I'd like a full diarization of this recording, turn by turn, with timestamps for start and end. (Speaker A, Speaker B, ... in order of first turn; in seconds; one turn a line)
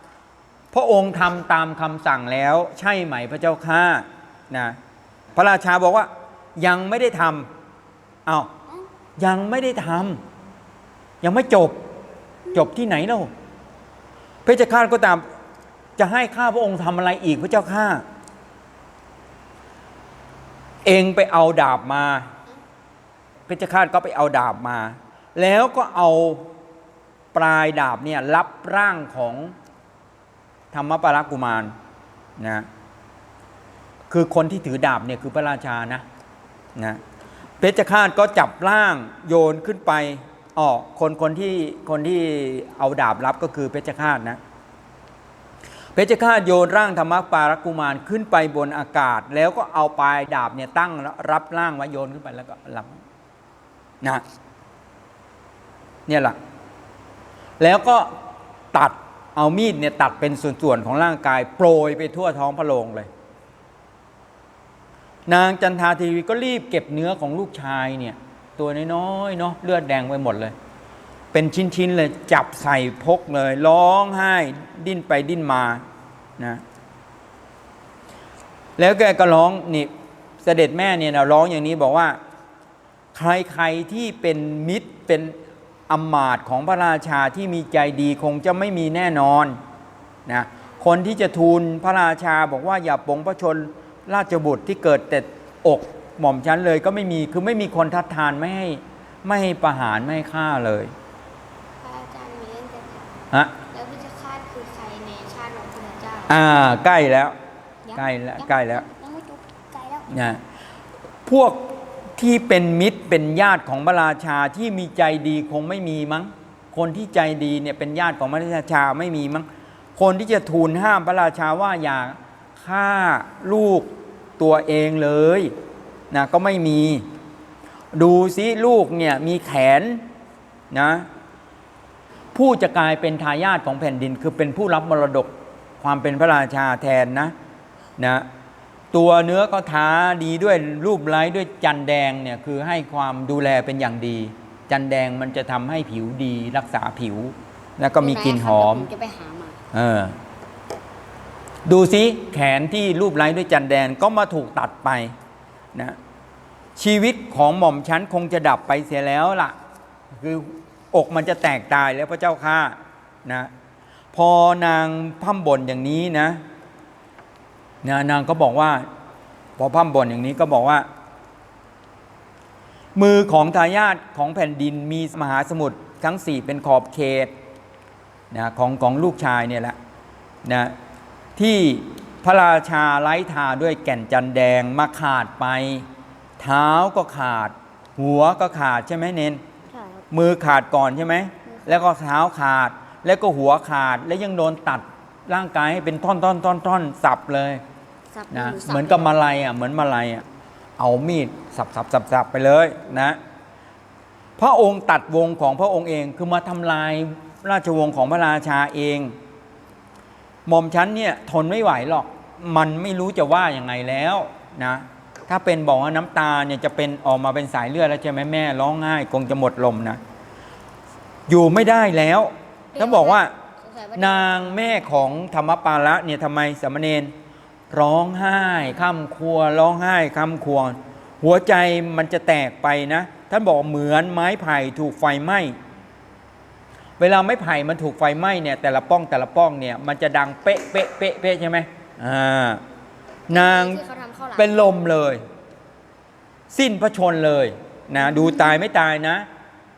Speaker A: 0.7-4.8
Speaker A: 5.3-7.5
Speaker A: 8.3-8.5
Speaker A: 9.2-10.2
Speaker A: 11.2-11.8
Speaker A: 12.5-13.3
Speaker A: 14.5-15.3
Speaker A: 16.0-18.1
Speaker A: 20.8-22.3
Speaker A: 23.5-26.5
Speaker A: 27.3-29.5
Speaker A: 30.7-31.7
Speaker A: 32.4-32.7
Speaker A: 34.1-36.0
Speaker A: 36.8-37.0
Speaker A: 37.6-44.4
Speaker A: 46.0-52.9
Speaker A: 56.1-56.4
Speaker A: 57.6-58.2
Speaker A: 58.7-63.1
Speaker A: 65.3-70.5
Speaker A: 71.3-75.8
Speaker A: 78.8-79.9
Speaker A: 80.4-82.2
Speaker A: 83.1-85.4
Speaker A: 85.9-89.6
Speaker A: 90.3-100.9
Speaker B: 101.8-103.2
Speaker B: 103.7-106.4
Speaker A: 106.3-107.3
Speaker B: 107.8-110.1
Speaker A: 107.9-108.8
Speaker A: 110.1-110.4
Speaker A: 111.3-125.5
Speaker A: 126.1-127.0
Speaker A: 127.9-130.1
Speaker A: 130.7-131.1
Speaker A: 132.3-137.3
Speaker A: 138.0-138.3
Speaker A: 138.9-148.9
Speaker B: 148.0-149.6
Speaker A: 149.7-150.2
Speaker A: 151.7-155.2
Speaker A: 156.8-159.6
Speaker A: 160.1-163.5
Speaker A: 164.1-166.4
Speaker A: 167.8-168.9
Speaker A: 169.6-170.9
Speaker A: 172.9-177.3
Speaker A: 178.3-179.8
Speaker A: 180.4-180.8
Speaker A: 181.4-185.9
Speaker A: 186.4-189.4
Speaker B: 189.7-190.1
Speaker A: 190.1-197.6
Speaker B: 191.4-191.9
Speaker B: 198.1-199.1
Speaker A: 198.3-200.2
Speaker A: 200.8-203.2
Speaker A: 204.4-209.2
Speaker A: 210.5-220.0
Speaker A: 221.3-223.3
Speaker B: 222.7-225.1
Speaker A: 223.9-227.1
Speaker A: 227.7-235.6
Speaker A: 237.0-242.6
Speaker B: 243.3-244.7
Speaker A: 243.3-243.8
Speaker A: 244.4-245.2
Speaker A: 246.5-249.3